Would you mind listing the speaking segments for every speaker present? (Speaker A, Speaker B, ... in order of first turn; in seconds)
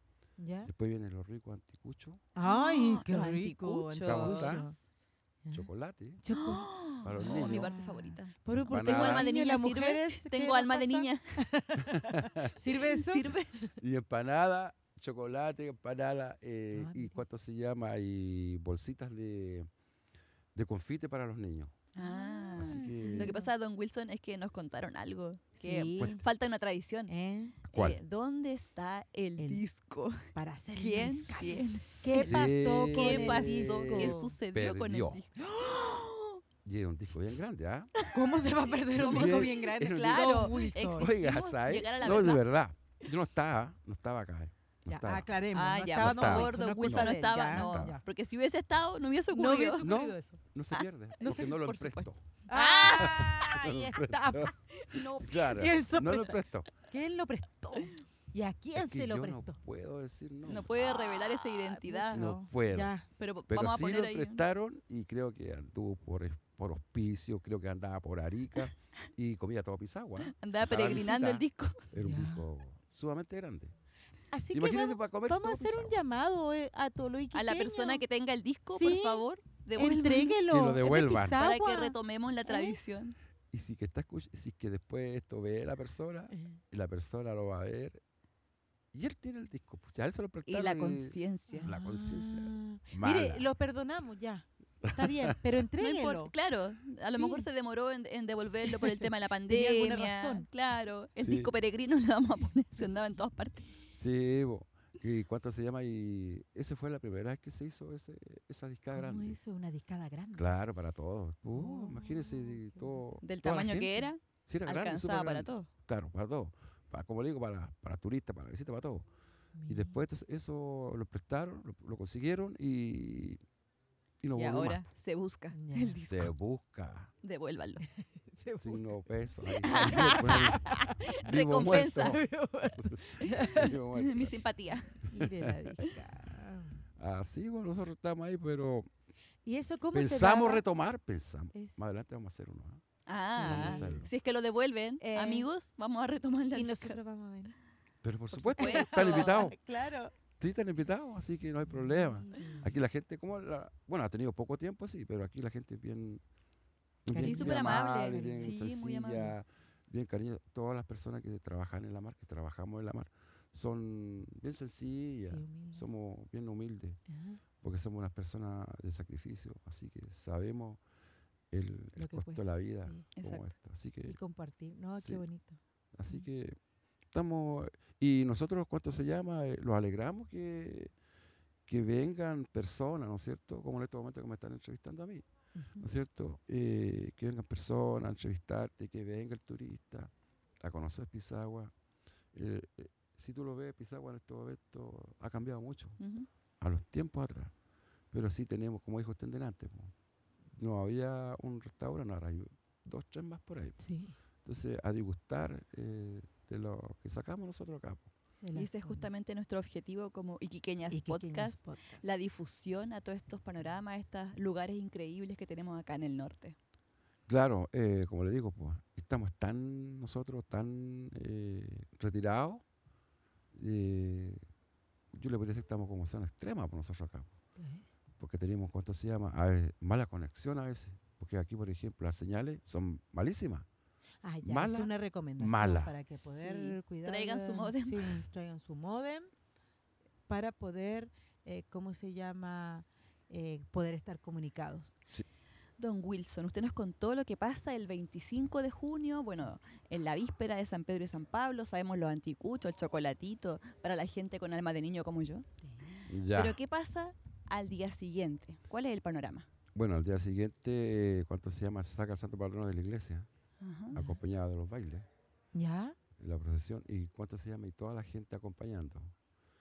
Speaker A: 0.4-0.7, 2.4-4.8, 6.2-13.3, 16.7-17.2, 22.0-23.5, 25.6-26.2, 27.1-27.6, 29.4-29.6, 30.3-34.3, 38.1-41.1, 44.9-48.0, 49.3-50.4, 51.2-51.5, 52.5-54.6, 55.4-59.6, 61.5-63.1, 72.0-72.5, 74.3-78.0, 78.7-82.0, 82.5-82.8, 86.3-86.6, 91.5-96.3, 97.1-97.5, 99.5-100.5, 108.9-110.5, 111.5-113.0, 119.6-120.0, 125.5-126.0, 128.0-128.9, 129.6-131.1, 131.8-133.8, 135.0-136.8, 139.4-140.6, 143.4-144.1, 145.0-145.5, 146.5-147.6, 148.6-150.1, 151.7-152.7, 157.1-158.5, 165.2-165.8, 167.1-167.4, 172.0-173.1, 174.1-176.2, 185.6-185.9, 203.8-204.2, 208.4-209.1, 210.9-212.1, 227.6-227.8, 234.2-239.3, 240.3-244.9, 255.7-256.0, 265.6-266.0
Speaker B: 0.6-2.2, 4.0-4.7, 5.5-6.2, 7.0-7.7, 8.7-9.3, 11.8-12.6, 13.8-19.7, 20.6-21.9, 22.6-23.4, 27.6-28.0, 32.1-35.2, 36.6-37.9, 39.0-40.4, 40.9-45.3, 46.0-48.0, 49.8-52.2, 52.9-56.7, 58.8-61.4, 62.1-62.9, 63.5-73.7, 74.5-76.0, 80.5-81.5, 83.5-88.0, 88.9-93.5, 94.8-95.6, 101.2-101.5, 103.9-109.4, 110.3-119.1, 119.7-123.4, 124.2-124.9, 126.1-127.1, 128.6-134.4, 135.1-135.6, 137.0-138.9, 139.9-142.8, 143.4-144.1, 148.0-149.6, 150.4-156.2, 157.1-167.0, 167.6-170.8, 171.5-174.2, 175.9-176.6, 177.1-180.9, 181.7-185.3, 185.8-191.7, 192.3-196.0, 196.6-197.5, 198.1-199.9, 200.6-203.8, 204.4-208.1, 217.3-222.6, 223.5-224.4, 225.1-227.3, 228.2-233.7, 234.4-235.9, 256.1-256.6, 259.8-263.3, 263.9-265.1, 266.2-269.1
Speaker C: 2.4-4.8, 6.3-11.4, 12.8-13.5, 21.9-27.1, 27.7-36.4, 38.0-38.4, 38.9-42.4, 45.5-49.9, 50.7-53.3, 54.8-55.7, 60.5-62.3, 63.2-64.4, 70.2-71.9, 77.3-83.2, 90.5-91.7, 95.8-103.7, 113.2-115.7, 124.3-126.3, 127.2-127.8, 129.6-132.2, 133.3-135.0, 143.1-147.0, 148.3-149.5, 157.2-159.3, 173.2-173.5, 196.0-196.3, 208.6-216.6, 236.4-238.2, 245.8-255.4, 256.3-259.5, 263.6-264.0